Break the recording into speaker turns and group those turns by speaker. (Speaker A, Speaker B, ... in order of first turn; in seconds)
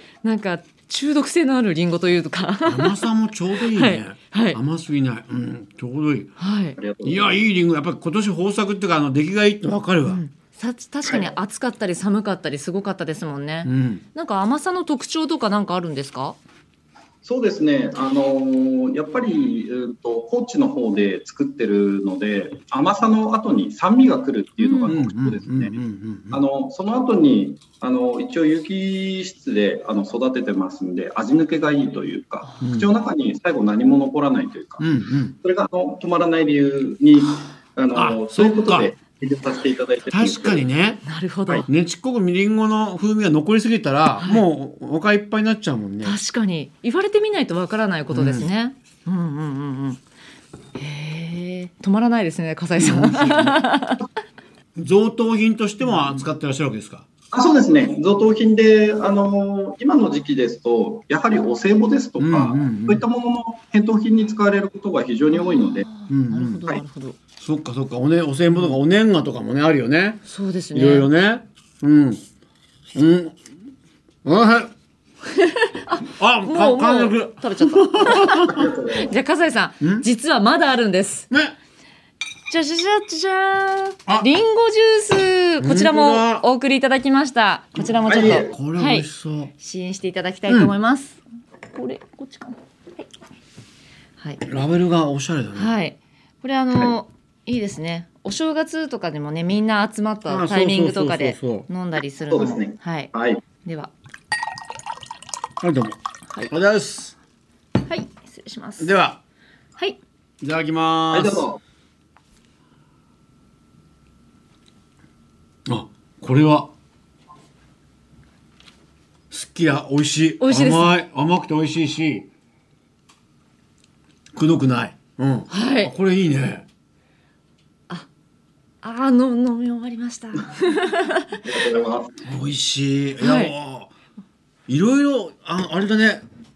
Speaker A: 0.2-3.0, 3.6-4.6, 6.4-6.8, 10.0-16.4, 24.6-24.9, 32.4-32.7, 41.1-41.7, 44.2-44.4, 46.0-50.0, 50.8-54.0, 55.8-56.2, 65.3-67.2, 68.5-68.8, 70.2-71.1, 75.3-81.3, 82.5-89.1, 89.6-91.2, 91.7-93.0, 95.5-103.1, 103.6-103.9, 107.9-108.9, 120.4-120.9, 125.5-125.9, 128.8-131.4, 133.2-133.5
Speaker B: 2.6-6.3, 7.0-10.2, 13.7-14.0, 24.9-26.4, 32.6-32.9, 34.8-35.4, 38.0-38.9, 40.1-41.0, 41.6-46.1, 48.1-48.5, 52.8-53.7, 54.8-57.0, 62.2-63.0, 66.1-66.7, 67.4-72.2, 72.9-73.3, 74.2-74.7, 76.1-78.7, 79.8-80.1, 81.3-81.6, 85.6-86.5, 88.2-89.5, 90.5-90.7, 94.4-95.7, 100.3-101.7, 105.6-106.0, 106.5-107.2, 108.8-109.2, 110.4-111.5, 115.7-116.7, 119.3-122.3, 124.3-126.7, 132.2-133.9, 134.7-136.2
Speaker C: 6.8-7.4, 11.0-11.3, 17.2-25.8, 26.3-34.9, 35.4-40.6, 57.3-65.9, 78.5-79.1, 88.0-88.5, 102.3-103.4, 111.1-111.6, 131.4-132.2